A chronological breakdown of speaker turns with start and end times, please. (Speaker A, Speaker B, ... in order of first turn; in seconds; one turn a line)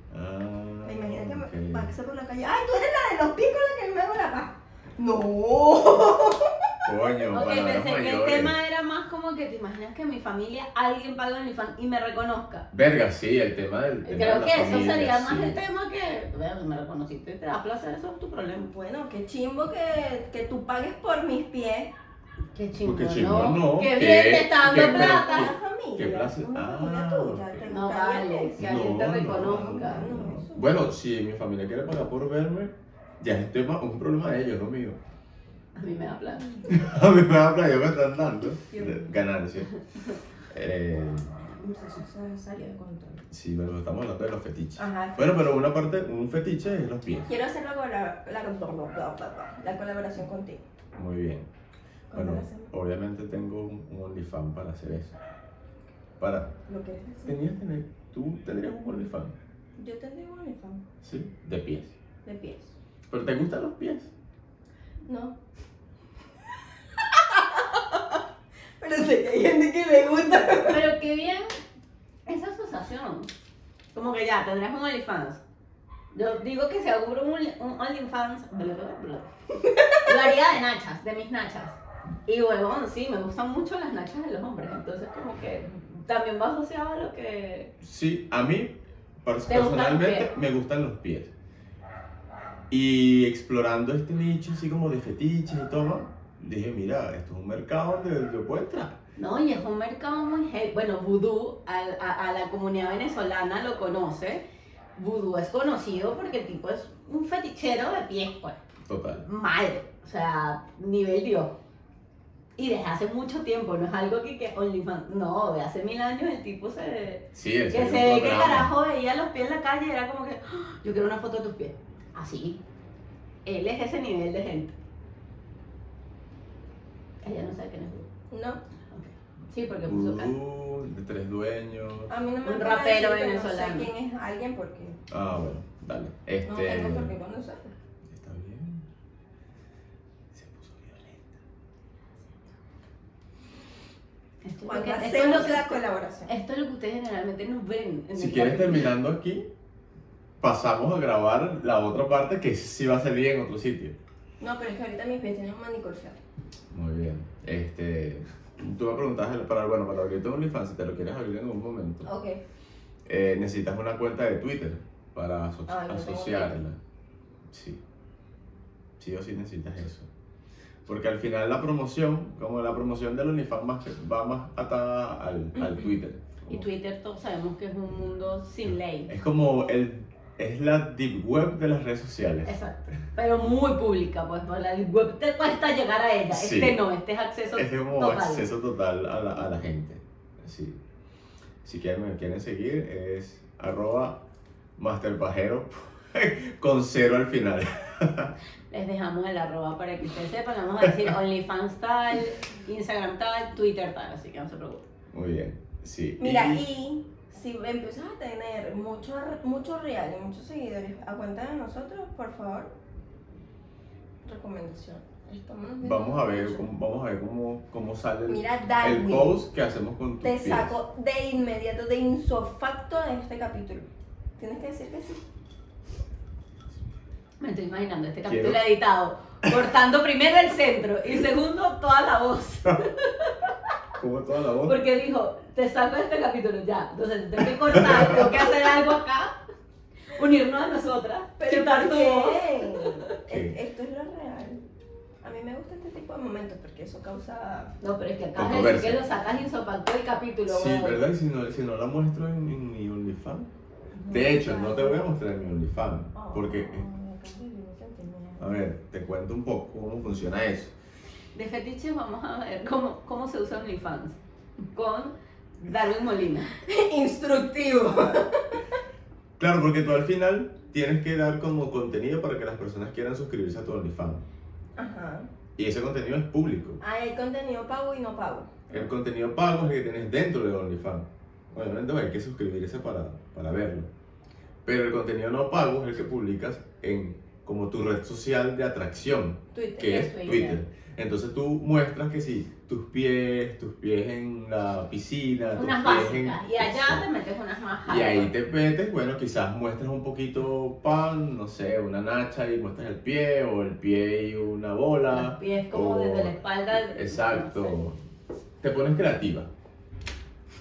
Speaker A: 0.1-1.9
Speaker B: 0.8-6.9
Speaker A: 6.8-8.6
Speaker C: 7.3-12.7
Speaker A: 12.7-15.6
Speaker C: 14.0-18.7
Speaker B: 18.7-21.9
Speaker C: 22.5-25.5
Speaker A: 22.8-27.7
Speaker B: 24.7-30.8
Speaker C: 27.7-30.2
Speaker A: 28.6-35.0
Speaker C: 35.8-36.5
Speaker A: 36.7-39.7
Speaker B: 38.7-39.1
Speaker A: 40.5-41.4
Speaker B: 41.4-43.2
Speaker A: 43.3-47.3
Speaker B: 44.8-45.4
Speaker B: 47.3-50.6
Speaker A: 50.9-51.5
Speaker B: 52.1-52.7
Speaker A: 52.1-55.2
Speaker A: 56.2-56.5
Speaker B: 56.6-57.4
Speaker A: 57.2-59.3
Speaker B: 59.8-60.8
Speaker A: 61.0-61.9
Speaker B: 62.2-62.7
Speaker A: 63.1-64.1
Speaker B: 65.1-65.4
Speaker B: 67.0-68.0
Speaker B: 68.8-70.9
Speaker C: 70.5-71.5
Speaker C: 72.3-73.3
Speaker C: 73.9-75.4
Speaker C: 76.1-79.3
Speaker B: 79.7-80.0
Speaker C: 80.0-87.7
Speaker A: 87.8-91.3
Speaker C: 89.5-90.3
Speaker A: 92.7-99.0
Speaker C: 99.2-104.4
Speaker C: 105.0-108.6
Speaker A: 108.8-109.2
Speaker C: 109.2-111.5
Speaker C: 112.6-122.6
Speaker A: 117.3-118.7
Speaker C: 123.4-124.7
Speaker C: 127.2-128.1
Speaker B: 128.3-128.6
Speaker C: 128.9-130.3
Speaker A: 129.8-132.1
Speaker B: 132.1-135.0
Speaker C: 132.4-133.9
Speaker A: 135.1-137.1
Speaker B: 136.4-137.7
Speaker A: 138.1-138.8
Speaker A: 140.3-141.4
Speaker C: 144.4-148.9
Speaker B: 144.6-146.3
Speaker A: 148.1-149.5
Speaker A: 150.4-154.0
Speaker B: 154.4-156.2
Speaker A: 156.7-162.1
Speaker B: 162.0-162.4
Speaker A: 163.1-166.8
Speaker B: 165.7-166.6
Speaker A: 167.5-167.8
Speaker A: 169.0-170.1
Speaker A: 170.8-176.7
Speaker C: 176.5-179.1
Speaker A: 179.1-182.5
Speaker C: 182.4-188.4
Speaker A: 186.3-186.8
Speaker A: 187.5-190.8
Speaker A: 191.6-194.2
Speaker A: 194.8-198.3
Speaker C: 198.7-204.8
Speaker A: 200.8-201.1
Speaker A: 205.1-206.6
Speaker B: 206.2-212.7
Speaker B: 214.2-216.7
Speaker A: 215.8-220.8
Speaker B: 218.3-219.4
Speaker B: 220.2-223.9
Speaker B: 224.4-225.2
Speaker C: 227.4-233.3
Speaker A: 228.2-228.6
Speaker A: 234.0-234.8
Speaker C: 234.6-239.3
Speaker A: 237.7-238.3
Speaker C: 240.1-243.0
Speaker B: 241.4-244.6
Speaker A: 243.3-243.6
Speaker B: 245.2-247.8
Speaker C: 247.8-251.0
Speaker A: 248.3-249.1
Speaker A: 250.5-253.5
Speaker B: 253.9-255.1
Speaker A: 254.1-256.9
Speaker B: 256.1-258.5
Speaker A: 258.4-260.7
Speaker C: 261.3-264.2
Speaker C: 264.7-266.5
Speaker B: 266.6-268.6
Speaker A: 269.4-274.2
Speaker B: 274.8-275.3
Speaker A: 275.6-276.8
Speaker B: 276.8-278.9
Speaker A: 278.7-283.9
Speaker A: 284.6-297.1
Speaker B: 289.5-290.1
Speaker C: 289.8-290.6
Speaker C: 295.6-298.3
Speaker A: 297.8-308.0
Speaker C: 305.1-307.8
Speaker A: 308.6-309.5